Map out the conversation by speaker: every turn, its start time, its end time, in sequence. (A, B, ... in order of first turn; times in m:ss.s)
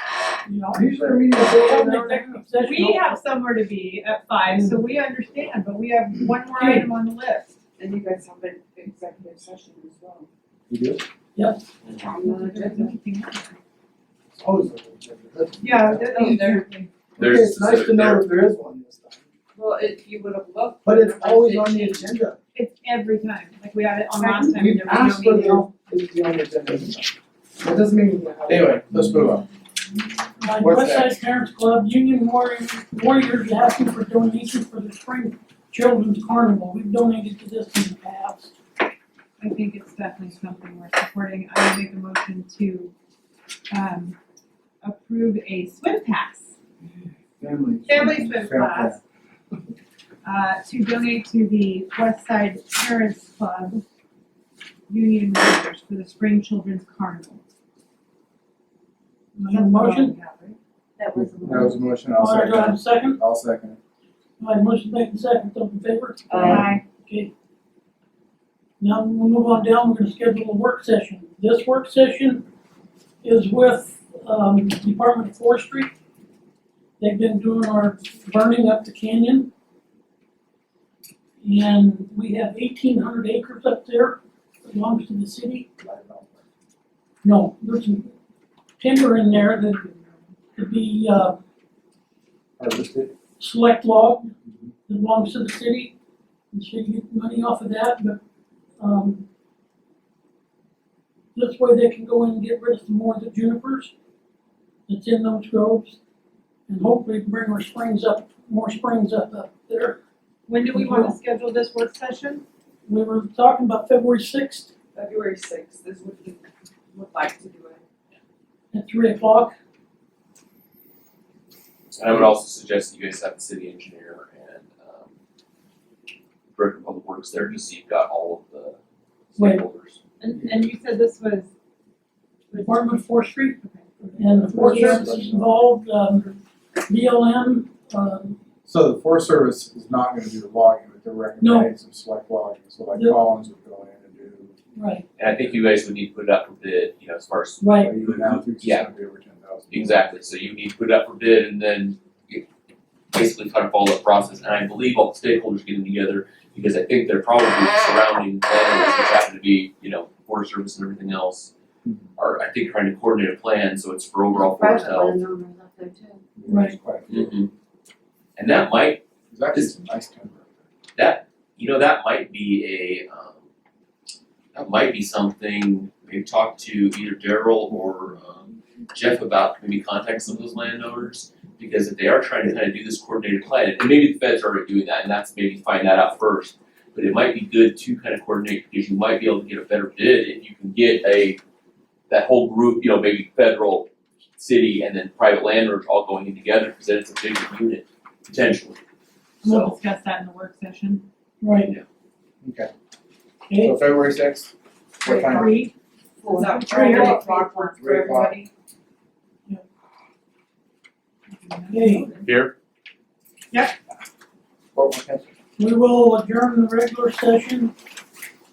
0:00.5-0:00.8 A
0:00.7-0:02.4 B
0:01.4-0:03.2 A
0:02.6-0:07.6 C
0:06.6-0:06.8 A
0:07.8-0:10.3 D
0:10.7-0:11.0 E
0:11.3-0:11.7 A
0:11.8-0:12.1 F
0:11.9-0:13.0 D
0:12.1-0:13.6 C
0:14.3-0:16.2 B
0:15.6-0:16.9 C
0:16.1-0:16.7 D
0:17.2-0:18.3 F
0:17.2-0:19.2 B
0:19.5-0:22.1 D
0:20.8-0:22.4 B
0:22.5-0:25.7 C
0:24.2-0:28.8 B
0:28.5-0:29.5 E
0:30.4-0:38.5 A
0:30.6-0:31.2 E
0:39.4-0:42.9 C
0:43.7-0:44.2 C
0:44.8-0:46.5 C
0:47.4-0:49.0 E
0:47.8-0:49.0 C
0:50.2-0:53.8 C
0:54.9-0:57.4 C
0:59.4-1:00.1 A
0:59.4-1:00.6 C
1:01.0-1:01.8 D
1:01.1-1:03.8 E
1:02.2-1:03.2 A
1:04.4-1:07.3 A
1:06.3-1:06.8 D
1:06.4-1:06.8 C
1:08.8-1:12.4 A
1:13.2-1:15.9 A
1:17.0-1:19.5 A
1:21.4-1:25.6 A
1:25.8-1:26.4 E
1:27.2-1:28.1 A
1:28.8-1:30.0 A
1:30.5-1:31.4 A
1:32.6-1:33.1 E
1:33.4-1:34.3 A
1:34.9-1:35.9 A
1:36.5-1:38.2 A
1:38.8-1:39.2 A
1:41.3-1:43.9 A
1:44.9-1:46.0 A
1:46.7-1:50.0 A
1:50.5-1:52.4 C
1:50.7-1:51.1 A
1:52.9-1:54.7 A
1:54.9-1:57.8 D
1:58.7-1:59.5 A
2:01.9-2:05.1 F
2:06.5-2:08.8 F
2:09.3-2:10.0 F
2:09.4-2:09.6 A
2:10.2-2:11.5 C
2:12.5-2:15.2 C
2:12.6-2:13.6 A
2:14.0-2:15.5 E
2:14.2-2:18.4 A
2:18.6-2:24.6 E
2:21.4-2:21.7 A
2:22.9-2:23.2 A
2:24.7-2:25.0 A
2:25.2-2:28.9 F
2:27.6-2:27.9 A
2:27.8-2:30.1 E
2:29.7-2:32.4 F
2:33.1-2:41.5 F
2:42.2-2:45.2 F
2:44.3-2:46.2 D
2:46.4-2:47.3 E
2:46.5-2:46.8 A
2:47.1-2:47.5 F
2:48.4-2:49.8 F
2:49.3-2:50.4 E
2:51.0-2:53.4 F
2:54.5-3:11.4 F
3:12.1-3:18.8 F
3:19.4-3:21.0 C
3:19.4-3:19.8 F
3:21.4-3:21.7 A
3:22.4-3:22.7 E
3:23.5-3:23.8 A
3:23.6-3:25.6 E
3:25.0-3:27.8 C
3:26.2-3:28.5 D
3:26.7-3:27.1 A
3:27.7-3:28.4 E
3:31.3-3:32.3 C
3:31.7-3:32.1 A
3:32.2-3:32.5 F
3:34.7-3:35.3 E
3:35.6-3:37.7 A